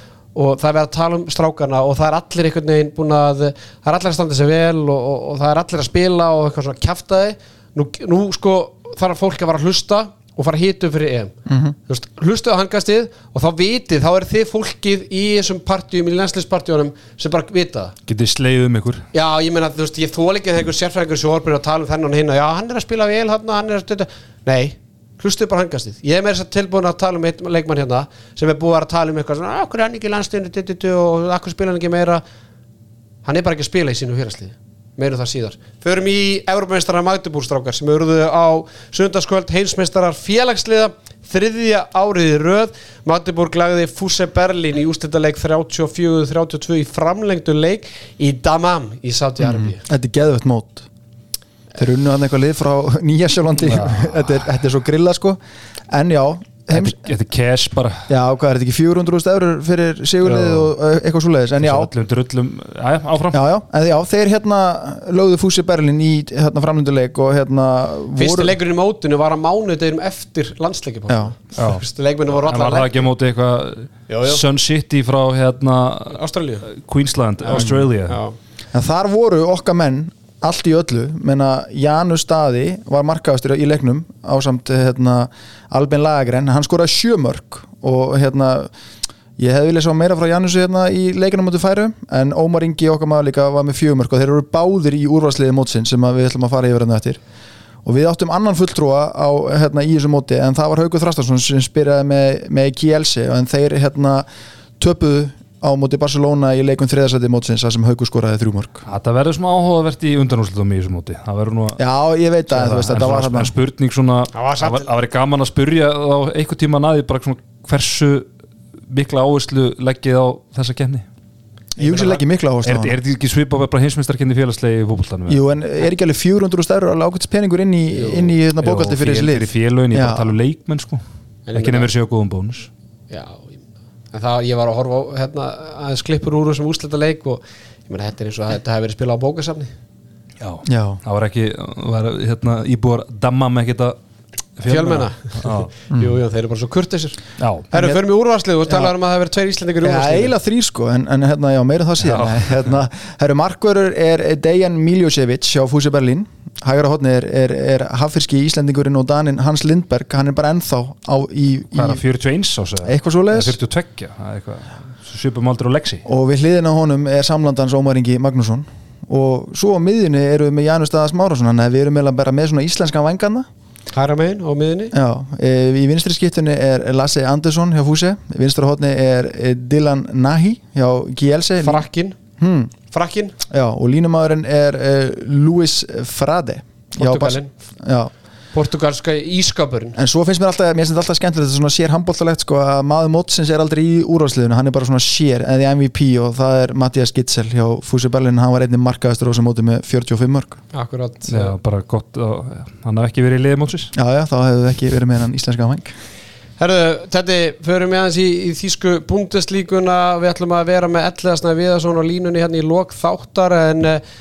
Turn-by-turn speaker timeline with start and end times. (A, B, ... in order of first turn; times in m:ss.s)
0:00.3-0:11.3 A
0:11.5-0:11.8 B
0:11.9-0:18.0 A
0:18.1-0:19.1 C
0:19.1-0:32.2 A
0:33.2-0:49.8 A
0:49.4-0:50.9 B
0:51.8-0:55.4 B
0:53.6-0:54.4 C
0:55.9-0:57.1 B
0:56.7-0:58.1 C
0:58.1-1:01.9 B
1:00.2-1:00.7 C
1:01.6-1:03.4 C
1:03.3-1:08.6 B
1:08.2-1:13.0 A
1:11.1-1:11.4 B
1:11.6-1:11.9 C
1:12.4-1:18.2 C
1:14.1-1:14.4 A
1:16.1-1:16.7 A
1:17.4-1:18.4 A
1:17.5-1:17.9 B
1:18.7-1:28.7 B
1:29.4-1:37.2 B
1:37.8-1:44.3 B
1:44.8-1:48.9 B
1:48.9-1:51.8 C
1:51.8-1:53.5 B
1:52.5-1:58.3 C
1:54.3-1:54.9 A
1:58.9-2:01.1 C
2:01.8-2:02.2 A
2:01.8-2:03.0 B
2:02.6-2:05.4 C
2:05.3-2:10.3 B
2:08.0-2:08.3 A
2:08.6-2:11.0 C
2:11.5-2:11.9 A
2:11.5-2:12.7 C
2:13.1-2:19.7 A
2:20.4-2:24.0 C
2:20.6-2:21.0 B
2:24.6-2:25.7 C
2:24.7-2:30.3 A
2:25.9-2:26.2 B
2:27.4-2:27.7 C
2:27.7-2:28.0 B
2:29.8-2:42.0 B
2:32.0-2:32.7 C
2:41.8-2:46.0 C
2:42.8-2:43.6 B
2:46.1-2:53.5 B
2:53.9-2:54.9 A
2:54.9-3:01.8 B
3:01.6-3:02.2 A
3:02.4-3:02.7 B
3:02.9-3:03.4 A
3:03.5-3:08.1 B
3:07.0-3:07.5 A
3:08.5-3:10.0 A
3:10.0-3:20.6 B
3:20.7-3:21.6 A
3:21.3-3:23.9 C
3:24.0-3:25.9 B
3:26.6-3:34.0 A